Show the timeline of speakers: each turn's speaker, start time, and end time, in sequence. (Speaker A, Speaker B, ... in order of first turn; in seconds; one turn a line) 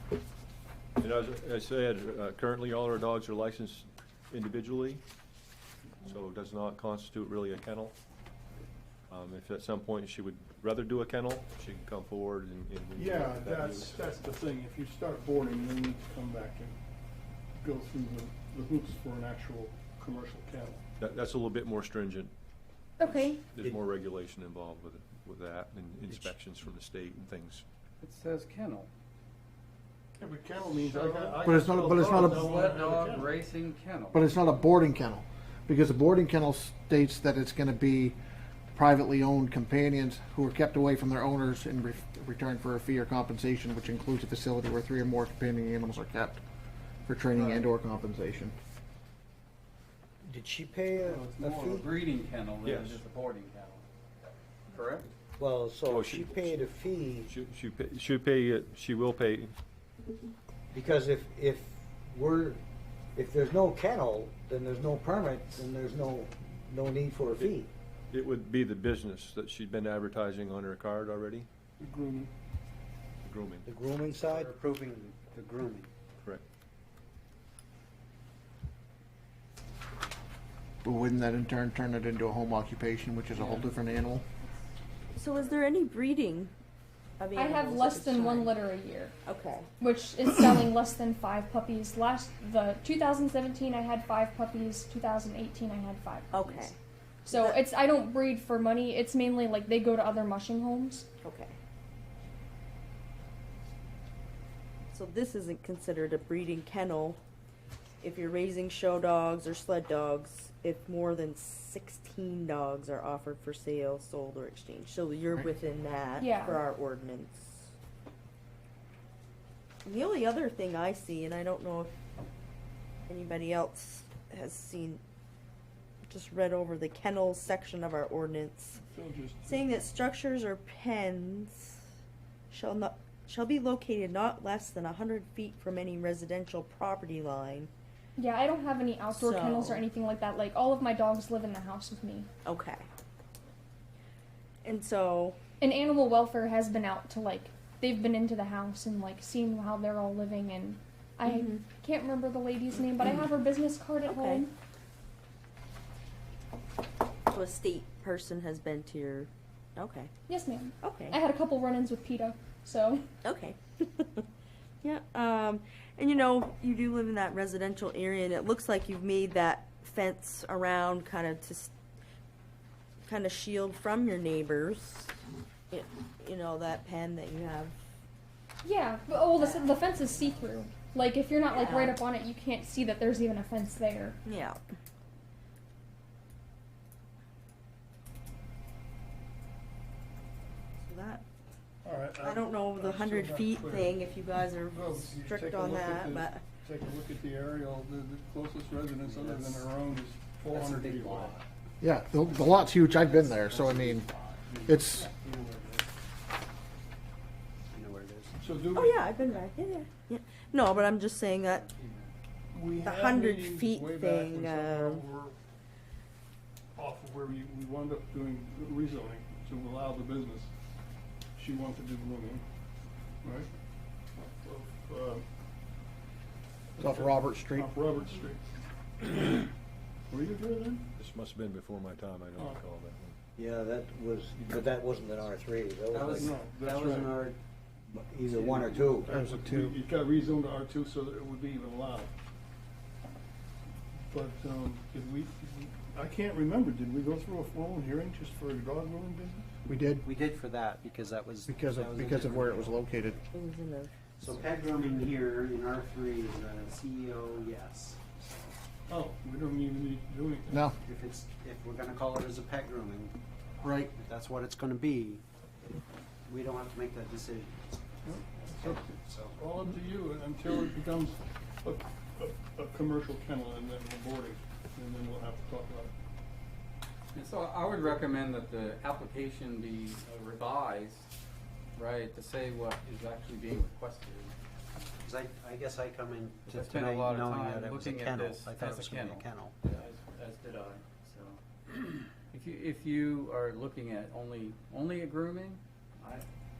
Speaker A: 1.0-5.0
Speaker A: 6.0-8.0
Speaker A: 9.1-14.0
Speaker B: 12.9-16.7
Speaker B: 17.5-20.8
Speaker A: 21.0-22.3
Speaker C: 23.0-23.4
Speaker A: 23.5-27.6
Speaker D: 28.0-28.9
Speaker B: 30.2-33.4
Speaker D: 30.7-34.2
Speaker E: 31.4-32.6
Speaker E: 34.1-38.2
Speaker E: 38.7-46.4
Speaker E: 47.1-48.5
Speaker F: 50.2-51.9
Speaker D: 51.0-53.8
Speaker A: 52.6-53.0
Speaker D: 54.7-55.1
Speaker F: 55.4-57.3
Speaker A: 55.8-56.6
Speaker A: 57.2-59.5
Speaker F: 60.7-62.6
Speaker F: 63.1-67.7
Speaker A: 68.1-71.5
Speaker B: 71.8-72.3
Speaker A: 73.2-73.7
Speaker F: 73.7-74.5
Speaker G: 74.1-75.9
Speaker E: 80.8-84.2
Speaker D: 83.3-83.7
Speaker H: 85.2-86.5
Speaker H: 87.2-88.5
Speaker C: 87.3-89.1
Speaker H: 89.2-89.7
Speaker C: 89.8-96.7
Speaker H: 96.3-96.8
Speaker C: 97.2-101.1
Speaker H: 97.3-97.6
Speaker H: 101.2-101.6
Speaker H: 104.9-107.2
Speaker H: 108.0-117.7
Speaker C: 116.2-116.6
Speaker H: 119.8-121.9
Speaker H: 123.1-125.0
Speaker H: 126.0-128.8
Speaker B: 128.9-129.6
Speaker H: 129.4-131.8
Speaker H: 132.5-137.7
Speaker C: 138.2-142.3
Speaker H: 139.1-139.8
Speaker H: 142.4-142.8
Speaker H: 144.6-145.4
Speaker C: 145.6-154.5
Speaker H: 151.2-151.6
Speaker H: 154.0-154.4
Speaker H: 157.3-160.1
Speaker C: 160.3-163.0
Speaker H: 160.8-161.2
Speaker H: 163.2-164.2
Speaker H: 164.8-171.7
Speaker H: 173.1-175.2
Speaker H: 175.7-177.8
Speaker C: 178.6-184.2
Speaker H: 179.4-179.7
Speaker H: 181.5-182.0
Speaker H: 184.2-184.6
Speaker H: 190.8-191.2
Speaker B: 191.8-194.0
Speaker H: 192.2-196.4
Speaker B: 194.7-201.4
Speaker G: 199.0-199.7
Speaker G: 200.5-201.4
Speaker E: 201.8-204.1
Speaker G: 202.2-205.9
Speaker E: 204.7-205.1
Speaker G: 207.7-208.3
Speaker B: 208.4-209.4
Speaker H: 208.7-211.7
Speaker D: 211.4-212.1
Speaker B: 212.5-215.3
Speaker H: 212.8-215.0
Speaker B: 216.8-220.5
Speaker B: 221.3-222.4
Speaker B: 223.2-223.5
Speaker B: 224.2-225.2
Speaker B: 226.8-229.5
Speaker E: 226.8-227.7
Speaker B: 230.1-230.8
Speaker A: 230.9-233.2
Speaker B: 232.3-232.6
Speaker F: 233.4-236.4
Speaker A: 234.3-234.7
Speaker G: 235.9-237.4
Speaker B: 236.2-237.2
Speaker F: 237.9-239.1
Speaker B: 238.2-242.1
Speaker E: 239.1-239.7
Speaker B: 244.1-249.5
Speaker E: 249.6-250.1
Speaker G: 250.0-253.1
Speaker E: 251.5-253.2
Speaker H: 253.3-253.9
Speaker G: 254.2-258.4
Speaker B: 258.9-260.7
Speaker E: 260.5-260.8
Speaker G: 260.8-263.1
Speaker E: 263.6-263.9
Speaker G: 263.9-265.2
Speaker G: 266.2-267.8
Speaker B: 268.0-275.9
Speaker G: 268.5-269.4
Speaker D: 277.1-281.1
Speaker D: 281.8-284.3
Speaker G: 285.0-289.6
Speaker D: 286.5-296.2